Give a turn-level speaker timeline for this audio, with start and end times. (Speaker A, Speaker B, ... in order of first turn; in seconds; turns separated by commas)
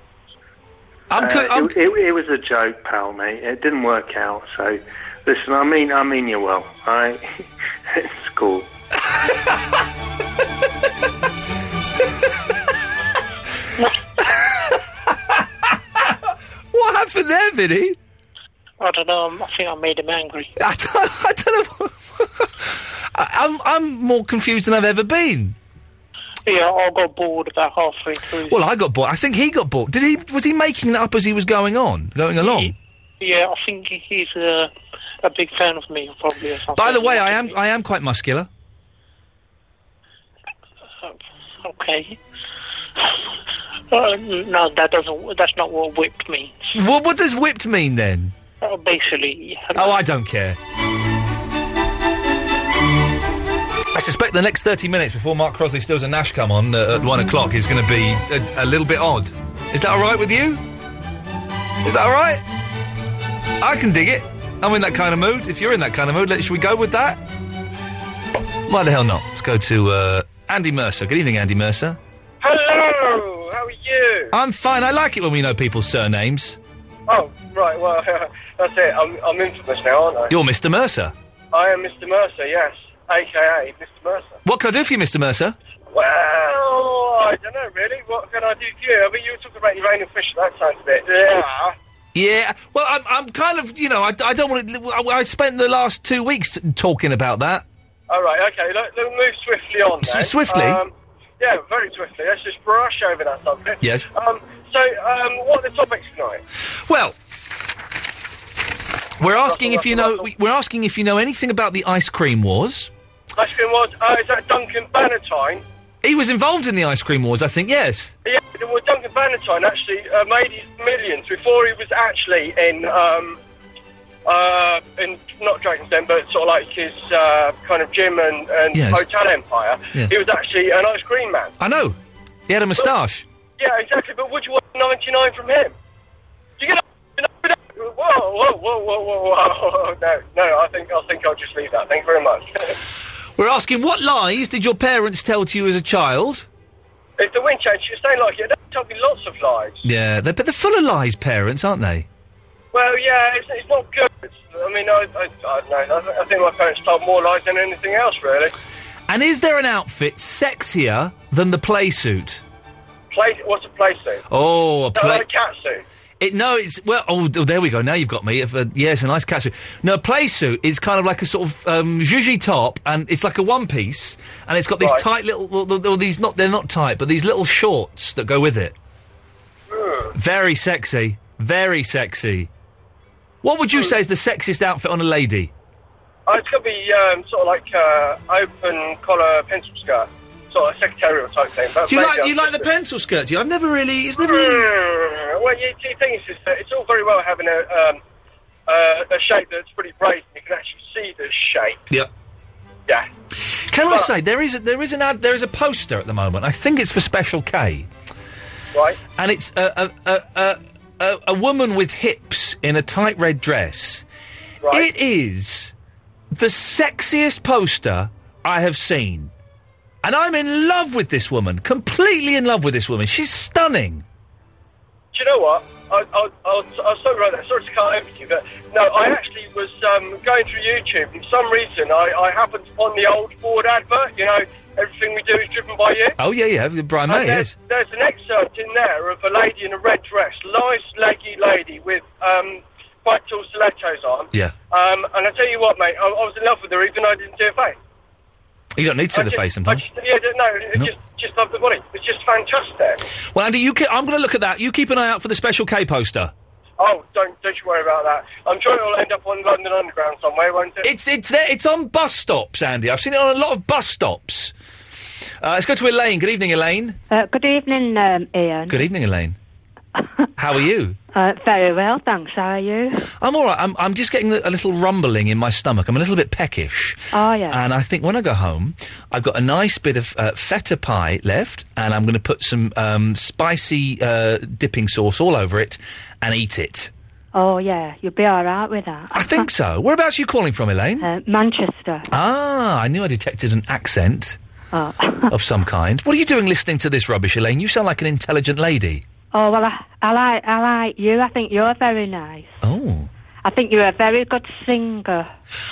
Speaker A: 1.1-1.7, Speaker B: 1.2-8.7, Speaker A: 16.7-18.0, Speaker C: 18.8-20.5, Speaker A: 20.6-25.6, Speaker C: 26.4-28.6, Speaker A: 28.4-32.7, Speaker C: 32.4-34.7, Speaker C: 35.2-37.5, Speaker A: 36.8-38.5, Speaker C: 41.0-42.2, Speaker C: 43.9-46.7, Speaker A: 46.7-48.3, Speaker C: 48.6-50.0, Speaker A: 49.7-50.6, Speaker A: 53.9-60.6, Speaker A: 61.8-62.4, Speaker A: 63.6-67.2, Speaker A: 68.7-72.0, Speaker D: 72.4-74.3, Speaker A: 74.3-76.6, Speaker D: 77.1-80.3, Speaker A: 80.3-81.1, Speaker D: 81.5-84.4, Speaker A: 84.4-85.5, Speaker D: 85.9-91.8, Speaker A: 92.1-97.6, Speaker D: 98.1-106.4, Speaker A: 100.0-100.8, Speaker A: 106.7-107.2, Speaker A: 109.2-112.9, Speaker D: 109.4-110.3, Speaker D: 113.3-115.6, Speaker A: 116.0-118.1, Speaker D: 118.2-123.4, Speaker D: 124.3-131.6, Speaker A: 128.7-129.1, Speaker A: 131.6-133.2, Speaker D: 133.6-135.7, Speaker D: 136.6-142.7, Speaker A: 143.4-146.5, Speaker D: 147.2-149.8, Speaker A: 149.8-152.1, Speaker D: 152.7-158.5, Speaker A: 159.1-162.4, Speaker D: 163.1-164.2, Speaker A: 164.3-165.3, Speaker D: 164.9-165.8, Speaker A: 166.2-178.8, Speaker D: 179.7-180.1, Speaker A: 180.1-182.5, Speaker A: 183.4-185.5, Speaker D: 186.3-192.7, Speaker A: 191.9-194.7, Speaker D: 194.2-198.0, Speaker D: 198.7-201.8, Speaker A: 203.4-207.9, Speaker D: 203.9-204.1, Speaker D: 208.7-209.0, Speaker A: 209.2-214.1, Speaker D: 214.6-214.9, Speaker A: 214.7-215.7, Speaker A: 216.3-219.3, Speaker A: 220.0-224.1, Speaker D: 225.1-236.2, Speaker A: 236.2-237.5, Speaker D: 237.1-247.8, Speaker A: 248.7-249.9, Speaker D: 249.1-253.0, Speaker A: 253.2-256.3, Speaker D: 256.8-260.9, Speaker A: 260.8-264.5, Speaker A: 265.4-267.0, Speaker E: 267.1-268.8, Speaker A: 268.7-269.4, Speaker E: 270.0-270.3, Speaker A: 270.4-271.0, Speaker E: 271.1-273.0, Speaker A: 273.2-286.9, Speaker E: 277.1-277.6, Speaker E: 287.3-289.4, Speaker A: 289.1-291.1, Speaker E: 291.0-292.1, Speaker A: 292.1-294.4, Speaker E: 294.7-295.3, Speaker A: 295.3-299.0, Speaker E: 299.3-302.6, Speaker A: 302.6-303.1, Speaker E: 303.4-305.3